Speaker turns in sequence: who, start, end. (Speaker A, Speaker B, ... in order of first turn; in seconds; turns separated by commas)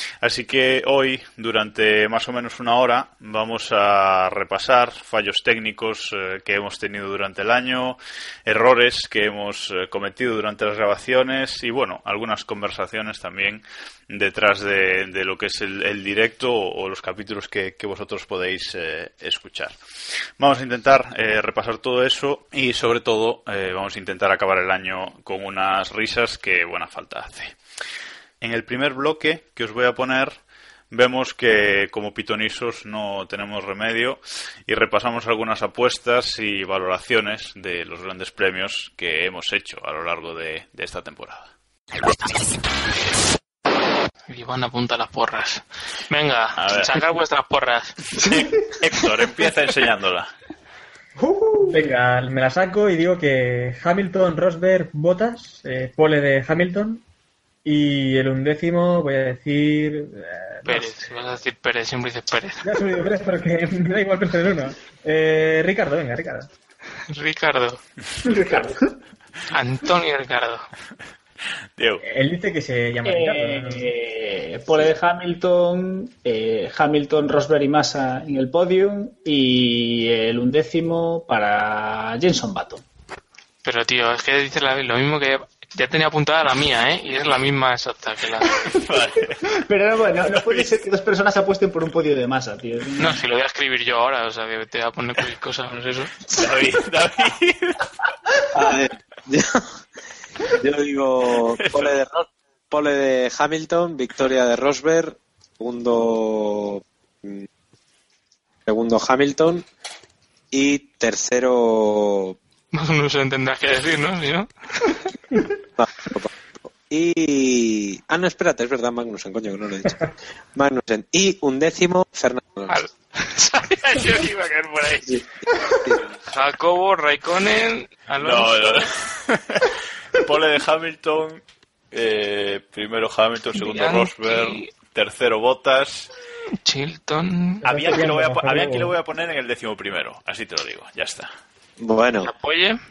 Speaker A: 0.2-19.7, Speaker A: 20.4-27.6, Speaker A: 28.4-30.4, Speaker A: 30.9-41.5, Speaker B: 44.3-48.0, Speaker A: 46.6-47.0, Speaker A: 48.3-50.3, Speaker C: 51.2-51.7, Speaker D: 51.7-57.0, Speaker D: 57.6-60.9, Speaker B: 60.6-62.8, Speaker D: 62.6-66.5, Speaker B: 67.1-67.8, Speaker C: 68.2-68.9, Speaker B: 69.5-70.7, Speaker A: 71.8-72.0, Speaker D: 72.0-73.9, Speaker C: 73.0-82.8, Speaker B: 83.6-88.5, Speaker A: 88.8-89.4, Speaker C: 89.6-93.2, Speaker A: 90.3-90.7, Speaker B: 93.0-96.2, Speaker A: 96.3-97.8, Speaker E: 98.5-99.6, Speaker E: 100.6-107.5, Speaker A: 101.6-102.0, Speaker E: 108.7-109.7, Speaker E: 110.5-112.4, Speaker B: 112.7-114.5, Speaker E: 115.8-116.3, Speaker E: 116.9-120.0, Speaker E: 120.5-122.8, Speaker B: 122.7-125.2, Speaker B: 126.3-128.9, Speaker A: 128.2-136.1, Speaker B: 133.6-134.7, Speaker B: 136.6-137.7, Speaker D: 137.6-138.9, Speaker A: 137.6-141.3, Speaker E: 141.8-142.3, Speaker B: 142.2-142.8